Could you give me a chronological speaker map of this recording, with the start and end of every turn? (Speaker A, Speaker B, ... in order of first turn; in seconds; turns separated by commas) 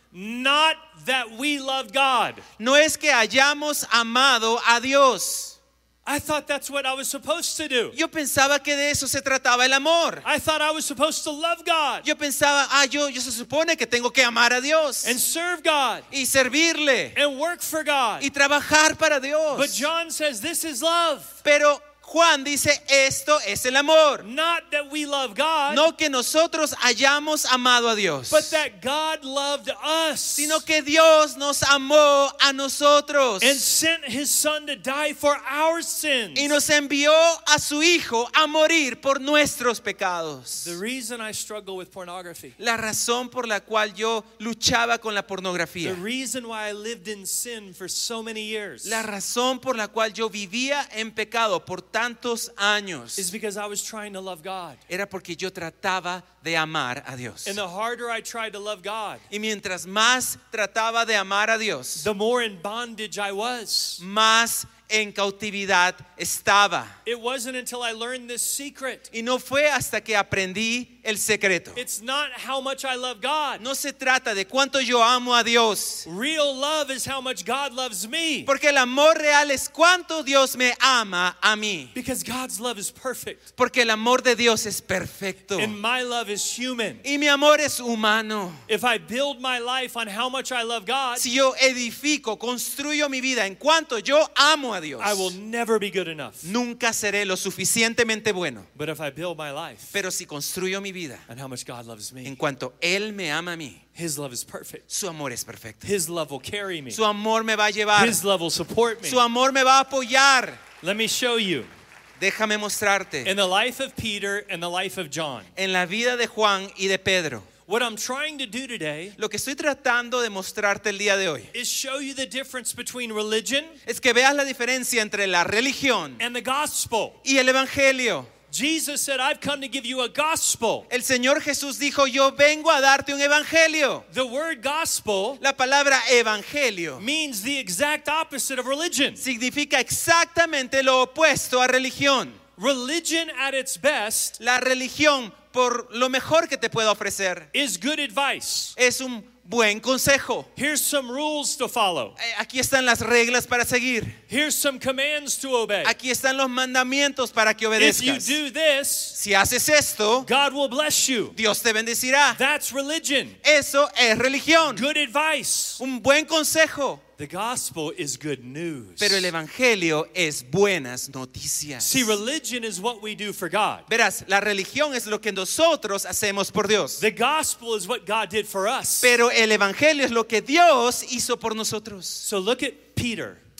Speaker A: 0.1-2.4, Speaker B: 2.6-5.6, Speaker A: 6.0-7.9, Speaker B: 7.9-10.2, Speaker A: 10.2-12.1, Speaker B: 12.0-15.2, Speaker A: 15.0-16.1, Speaker B: 16.1-17.2, Speaker A: 17.1-18.3, Speaker B: 18.2-19.9, Speaker A: 19.5-21.4, Speaker B: 21.4-24.3, Speaker A: 24.2-25.9, Speaker B: 25.7-28.6, Speaker A: 28.3-30.6, Speaker B: 30.4-33.6, Speaker A: 33.4-36.5, Speaker B: 36.3-40.8, Speaker A: 40.6-42.5, Speaker B: 42.6-46.0, Speaker A: 45.8-49.0, Speaker B: 48.8-53.3, Speaker A: 53.1-54.8, Speaker B: 54.9-57.6, Speaker A: 57.4-59.2, Speaker B: 59.3-62.0, Speaker A: 62.0-64.0, Speaker B: 64.0-66.9, Speaker A: 67.0-69.1, Speaker B: 69.1-71.8, Speaker A: 71.8-73.6, Speaker B: 73.6-76.0, Speaker A: 76.0-78.5, Speaker B: 78.5-81.9, Speaker A: 81.9-83.4, Speaker B: 83.6-85.7, Speaker A: 85.6-87.0, Speaker B: 87.0-88.6, Speaker A: 88.7-91.2, Speaker B: 91.2-95.3, Speaker A: 95.0-96.5, Speaker B: 96.4-98.7, Speaker A: 98.7-99.9, Speaker B: 99.9-101.2, Speaker A: 101.3-102.4, Speaker B: 102.2-103.8, Speaker A: 103.9-104.8, Speaker B: 104.9-105.9, Speaker A: 105.8-107.0, Speaker B: 106.9-108.2, Speaker A: 107.9-109.2, Speaker B: 109.0-110.6, Speaker A: 110.8-111.7, Speaker B: 112.2-113.3, Speaker A: 113.2-115.5, Speaker B: 115.5-117.5, Speaker A: 117.7-119.2, Speaker B: 119.2-121.5, Speaker A: 121.5-123.8, Speaker B: 123.8-126.2, Speaker A: 126.2-127.2, Speaker B: 127.2-128.3, Speaker A: 128.5-130.9, Speaker B: 130.9-134.1, Speaker A: 134.1-135.4, Speaker B: 135.4-137.0, Speaker A: 137.0-139.2, Speaker B: 139.2-142.4, Speaker A: 142.6-144.4, Speaker B: 144.4-147.5, Speaker A: 147.5-148.7, Speaker B: 148.8-150.5, Speaker A: 150.6-152.2, Speaker B: 152.2-154.2, Speaker A: 154.3-155.9, Speaker B: 155.8-158.4, Speaker A: 157.8-159.2, Speaker B: 159.1-160.3, Speaker A: 160.2-161.4, Speaker B: 161.3-162.4, Speaker A: 162.3-163.4, Speaker B: 163.4-164.8, Speaker A: 164.6-165.8, Speaker B: 165.8-167.0, Speaker A: 167.2-169.3, Speaker B: 169.0-172.1, Speaker A: 171.8-173.9, Speaker B: 173.9-177.0, Speaker A: 177.0-179.1, Speaker B: 179.0-182.2, Speaker A: 182.2-183.4